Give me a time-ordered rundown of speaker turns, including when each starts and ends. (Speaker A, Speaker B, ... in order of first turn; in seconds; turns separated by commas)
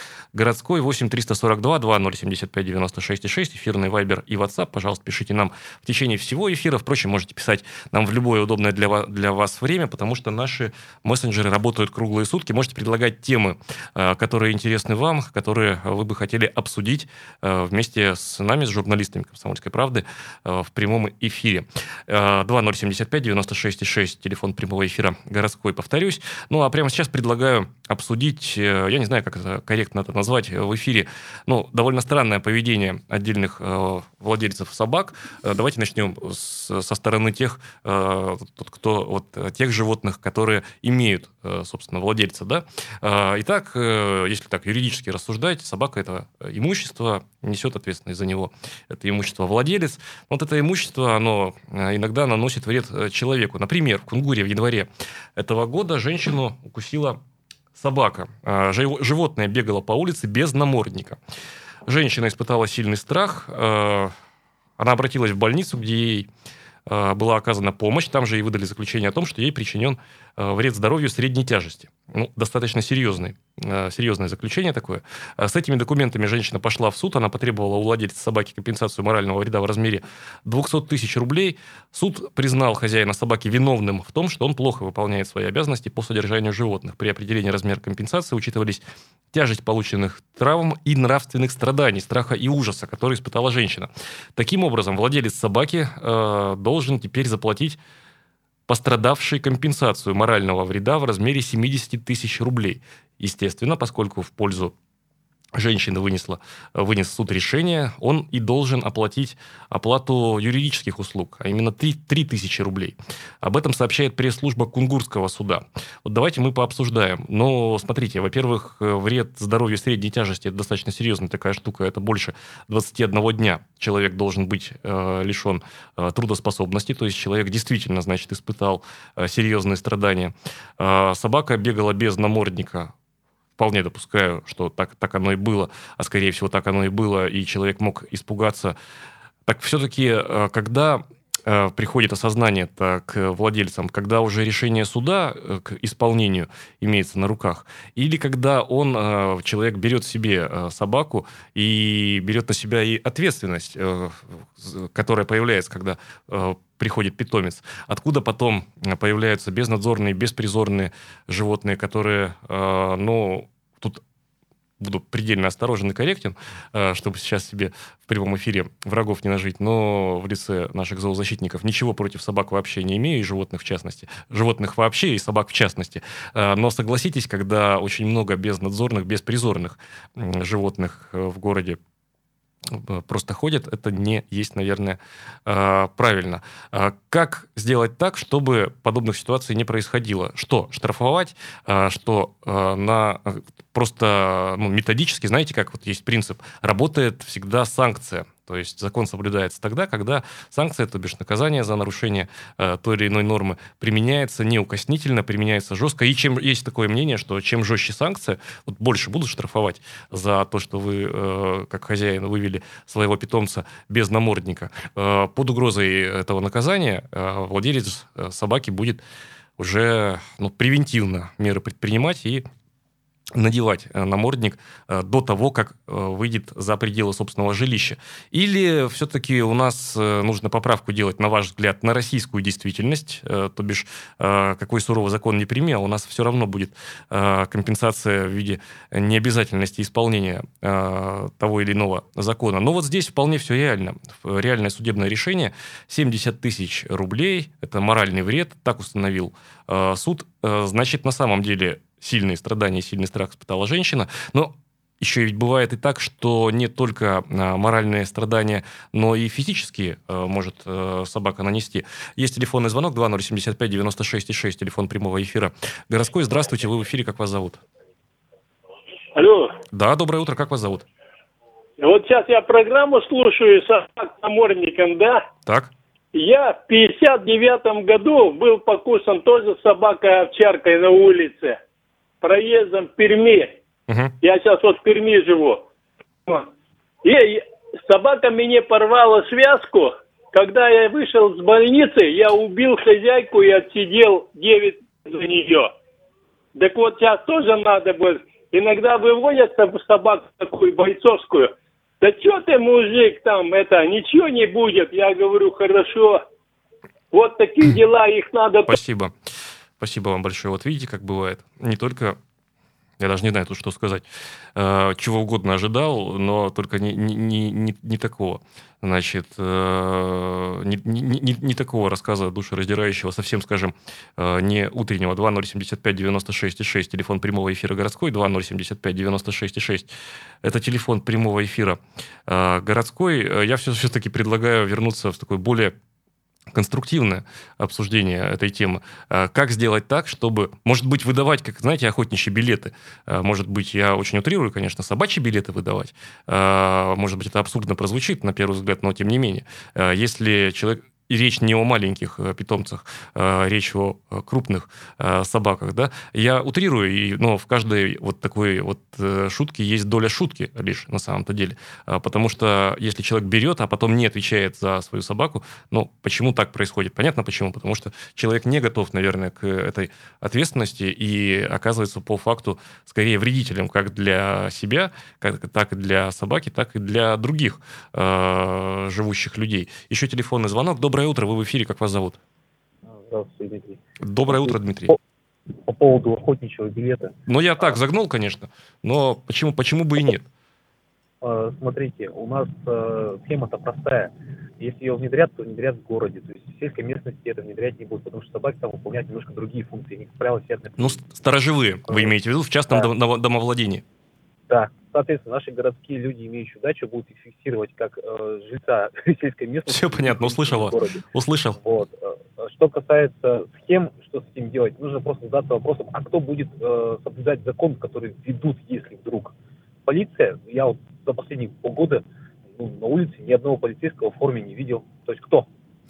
Speaker A: 0.3-57.2, Speaker A: 57.8-61.2, Speaker A: 61.9-64.1, Speaker A: 64.8-66.3, Speaker A: 66.9-97.8, Speaker A: 98.7-104.8, Speaker A: 105.5-132.9, Speaker A: 133.6-138.8, Speaker A: 139.5-164.0, Speaker A: 164.8-181.8, Speaker A: 182.7-219.0, Speaker A: 219.6-222.5, Speaker A: 223.3-267.6, Speaker B: 269.1-269.6, Speaker A: 269.7-270.9, Speaker B: 271.8-275.3, Speaker A: 275.5-275.7, Speaker B: 276.1-281.6, Speaker B: 282.2-283.6, Speaker A: 283.9-284.1, Speaker B: 284.2-285.6, Speaker B: 287.0-295.7, Speaker B: 296.6-306.2, Speaker B: 307.1-308.8, Speaker A: 308.7-309.1, Speaker A: 309.8-312.2, Speaker A: 313.0-329.9, Speaker A: 330.4-335.8, Speaker A: 336.5-382.2, Speaker C: 382.9-385.0, Speaker A: 384.0-385.0, Speaker C: 385.6-387.1, Speaker A: 387.3-390.3, Speaker C: 391.2-401.0, Speaker A: 400.8-403.8, Speaker C: 401.9-402.1, Speaker C: 404.5-411.0, Speaker A: 409.7-411.6, Speaker C: 411.6-419.3, Speaker C: 419.9-422.0, Speaker C: 422.6-425.5